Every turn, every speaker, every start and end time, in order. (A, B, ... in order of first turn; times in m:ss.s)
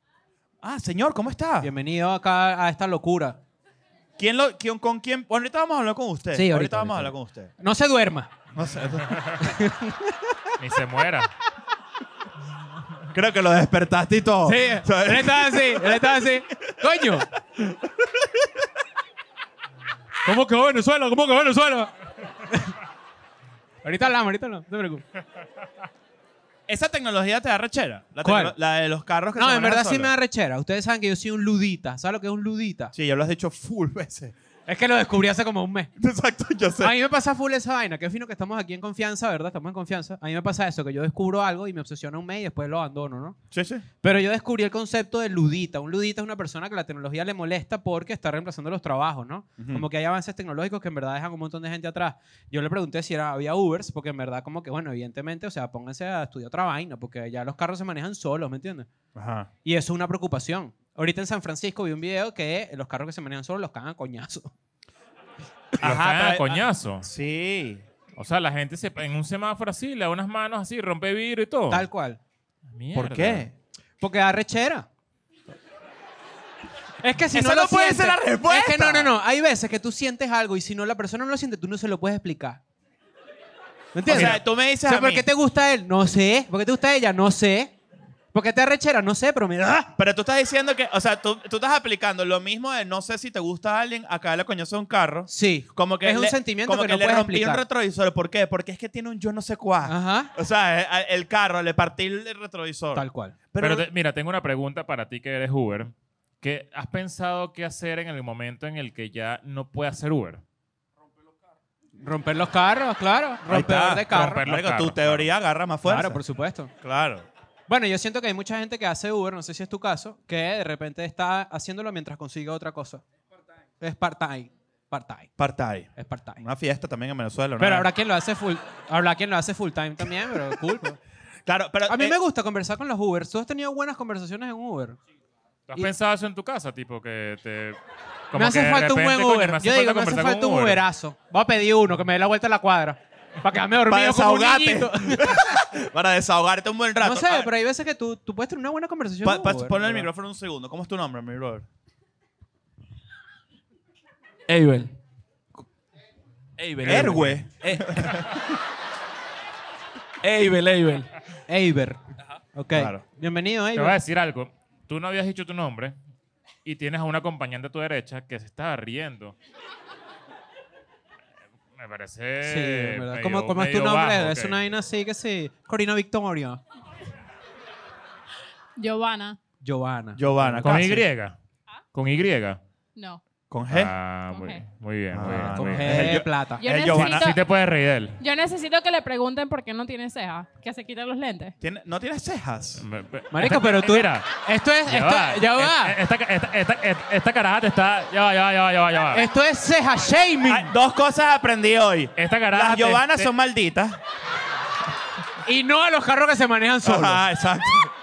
0:00.6-0:01.7 A
0:01.6-0:03.4 B
0:04.2-0:07.5 A
0:06.3-0:08.3 B
0:08.5-0:09.2 A
0:09.0-0:09.4 C
0:09.4-0:10.2 B
0:10.6-0:11.3 C
0:13.1-0:16.1 A
0:14.4-0:17.3 B
0:17.6-0:18.6 A
0:20.2-0:21.9 B
0:22.5-0:22.7 B
0:23.8-0:25.0 B
0:26.7-0:30.1 A
0:28.2-0:28.5 B
0:29.4-0:32.9 B
0:32.9-0:34.3 A
0:34.7-0:35.9 B
0:36.0-0:36.9 A
0:36.8-0:43.4 B
0:43.5-0:43.8 A
0:44.0-0:58.9 B
0:49.6-0:49.8 A
0:59.1-0:59.5 A
0:59.6-1:04.5 B
1:05.8-1:07.8 A
1:05.8-1:07.0 C
1:08.2-1:11.8 C
1:11.7-1:12.2 B
1:12.7-1:13.4 C
1:12.9-1:13.5 A
1:14.0-1:14.9 B
1:17.0-1:22.6 B
1:17.3-1:19.1 A
1:23.9-1:27.7 B
1:24.0-1:25.2 A
1:28.3-1:29.9 B
1:30.0-1:43.8 A
1:35.3-1:37.6 B
1:39.8-1:40.3 B
1:42.9-1:43.3 B
1:43.6-1:50.4 C
1:52.0-1:54.4 B
1:53.5-1:56.2 A
1:54.1-1:55.3 C
1:55.8-1:56.7 B
1:56.8-1:57.2 A
1:57.7-2:03.0 B
2:03.8-2:05.3 B
2:05.4-2:07.9 A
2:06.0-2:06.4 B
2:07.6-2:11.0 B
2:11.4-2:12.2 A
2:11.9-2:15.0 B
2:15.7-2:17.8 C
2:18.3-2:20.8 C
2:18.3-2:25.6 B
2:23.8-2:27.5 A
2:27.0-2:30.1 B
2:29.2-2:31.6 A
2:34.5-2:34.9 D
2:36.6-2:38.2 D
2:36.8-2:38.2 A
2:40.2-2:41.1 D
2:41.5-2:42.0 B
2:42.5-2:44.0 B
2:42.7-2:43.0 A
2:43.8-2:45.9 C
2:46.6-2:49.4 C
2:51.8-2:54.6 C
2:52.4-2:56.6 B
2:58.8-2:59.4 E
2:59.6-3:01.0 B
3:00.2-3:01.0 A
3:00.6-3:01.4 C
3:01.9-3:02.6 C
3:03.0-3:03.2 E
3:03.5-3:03.9 A
3:03.7-3:06.1 C
3:04.3-3:04.6 E
3:05.1-3:07.3 A
3:05.5-3:06.6 B
3:06.6-3:07.4 E
3:06.9-3:08.2 C
3:08.2-3:11.5 E
3:11.6-3:12.8 A
3:12.8-3:14.3 C
3:13.3-3:16.0 B
3:14.8-3:19.2 C
3:19.1-3:20.7 B
3:20.4-3:24.0 A
3:22.2-3:23.3 C
3:25.4-3:27.2 B
3:26.8-3:27.9 A